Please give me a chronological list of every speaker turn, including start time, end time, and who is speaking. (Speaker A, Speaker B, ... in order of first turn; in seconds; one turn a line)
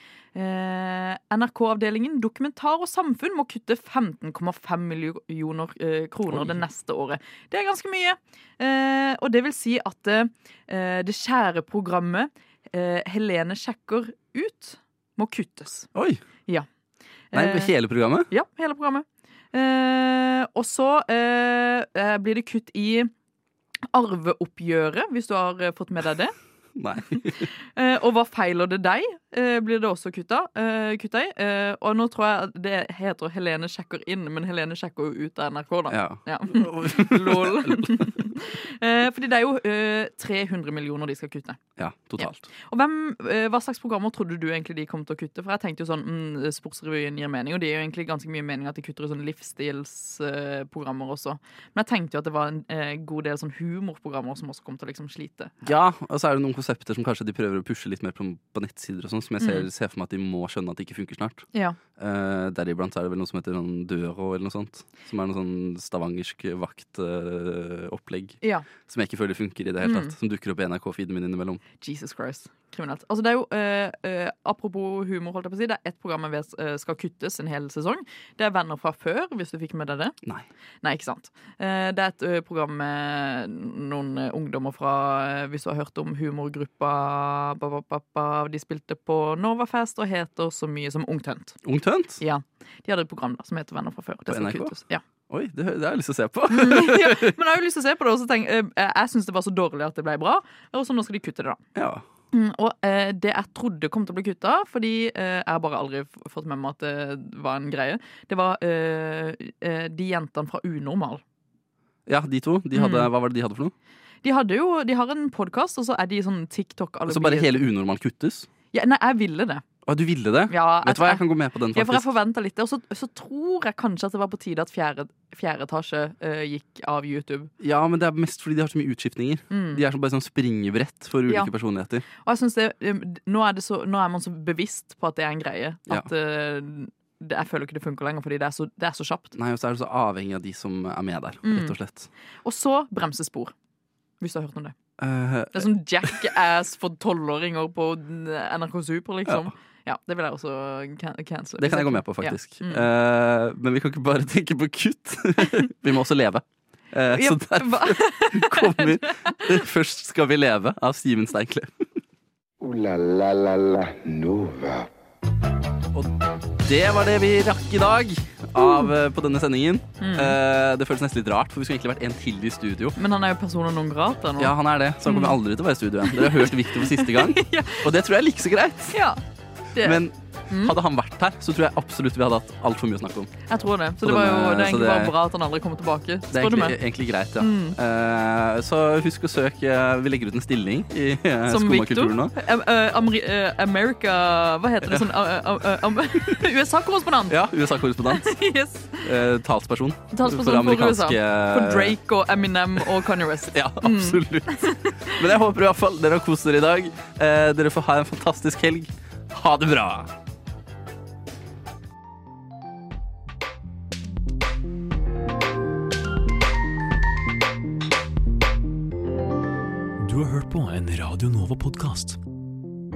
Speaker A: 0.3-15.9
Speaker B: 6.3-6.6
Speaker B: 15.9-16.2
Speaker A: 17.3-17.8
Speaker B: 17.3-18.3
Speaker A: 18.3-23.1
Speaker A: 23.9-26.3
Speaker B: 26.8-27.5
Speaker A: 27.8-41.6
Speaker B: 35.9-38.1
Speaker B: 41.8-42.5
Speaker A: 42.2-55.7
Speaker B: 55.6-71.6
Speaker A: 59.4-59.7
Speaker A: 61.5-61.8
Speaker A: 68.4-68.7
Speaker A: 69.8-70.1
Speaker A: 71.8-80.2
Speaker A: 80.8-91.6
Speaker B: 91.6-92.2
Speaker A: 92.2-95.0
Speaker B: 94.3-94.7
Speaker B: 95.3-97.4
Speaker A: 96.5-101.6
Speaker B: 101.8-102.0
Speaker A: 102.3-111.2
Speaker B: 112.1-113.7
Speaker A: 112.7-113.1
Speaker A: 114.2-117.6
Speaker B: 117.1-118.5
Speaker A: 118.7-119.6
Speaker B: 119.8-122.1
Speaker A: 120.5-127.5
Speaker B: 127.6-132.1
Speaker A: 129.5-129.8
Speaker A: 132.2-139.3
Speaker B: 139.3-142.1
Speaker A: 141.4-141.8
Speaker A: 142.4-143.5
Speaker A: 144.2-144.8
Speaker B: 145.0-146.2
Speaker A: 145.5-152.9
Speaker B: 149.3-149.5
Speaker B: 151.6-161.7
Speaker A: 157.1-159.6
Speaker C: 162.6-164.9
Speaker B: 165.9-173.0
Speaker A: 168.6-168.9
Speaker A: 170.0-170.4
Speaker A: 173.0-175.4
Speaker B: 174.4-179.0
Speaker A: 176.1-177.9
Speaker A: 178.9-179.2
Speaker A: 179.8-180.8
Speaker B: 179.8-183.3
Speaker A: 183.5-186.8
Speaker B: 184.0-185.2
Speaker B: 186.3-192.3
Speaker A: 187.4-187.8
Speaker A: 191.5-197.4
Speaker B: 194.8-195.1
Speaker B: 197.3-198.4
Speaker A: 198.0-199.1
Speaker B: 199.0-202.0
Speaker A: 200.1-205.2
Speaker B: 203.5-210.1
Speaker D: 220.0-222.2